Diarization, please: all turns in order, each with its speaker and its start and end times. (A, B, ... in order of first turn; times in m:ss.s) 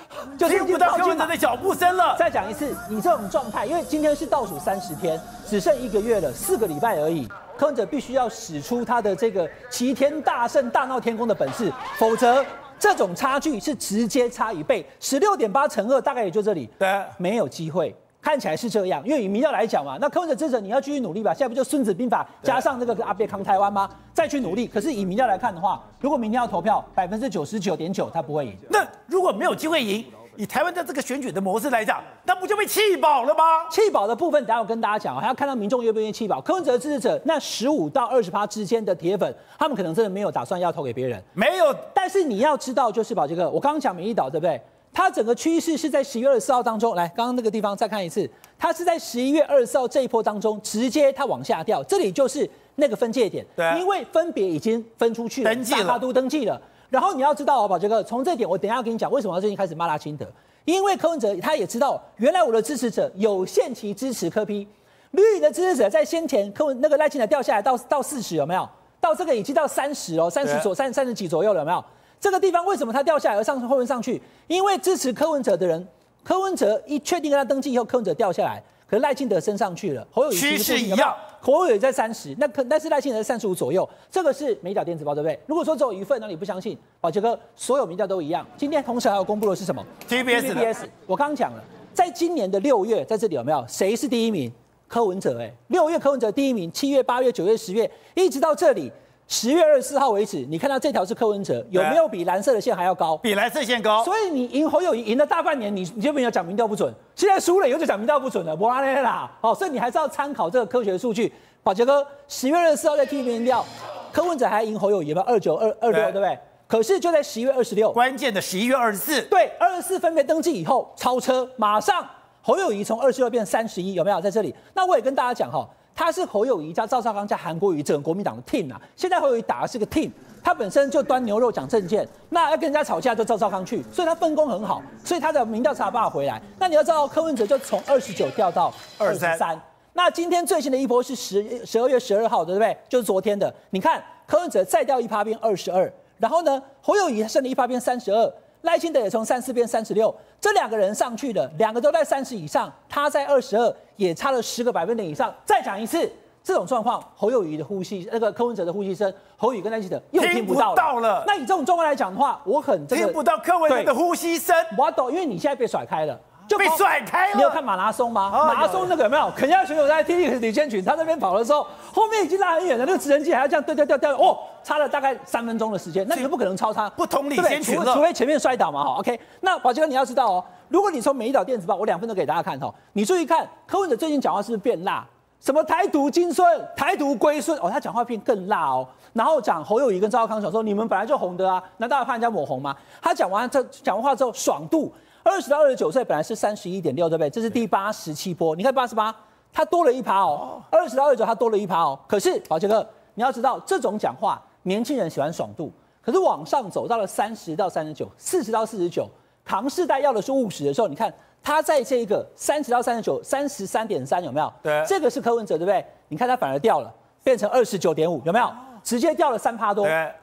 0:00.3-0:01.3 A
0:00.4-0:02.2 B
0:02.2-0:28.7 A
0:16.8-0:17.2 B
0:28.7-0:33.7 B
0:33.7-0:41.3 A
0:41.4-0:41.9 B
0:41.9-1:43.2 A
0:53.6-0:53.8 B
0:55.4-0:56.0 B
1:20.3-1:21.2 B
1:30.1-1:30.7 B
1:41.7-1:42.0 B
1:43.2-1:44.1 B
1:44.0-1:58.0 A
1:55.9-1:56.2 B
1:57.9-1:59.3 B
1:59.3-2:43.9 A
2:19.0-2:19.4 B
2:40.2-2:41.3 B
2:42.9-2:44.7 B
2:44.7-2:46.8 A
2:46.6-2:47.6 B
2:47.3-3:40.0 A
2:48.3-2:48.9 B
2:57.0-2:58.1 B
3:34.6-3:34.9 B
3:39.8-3:40.2 B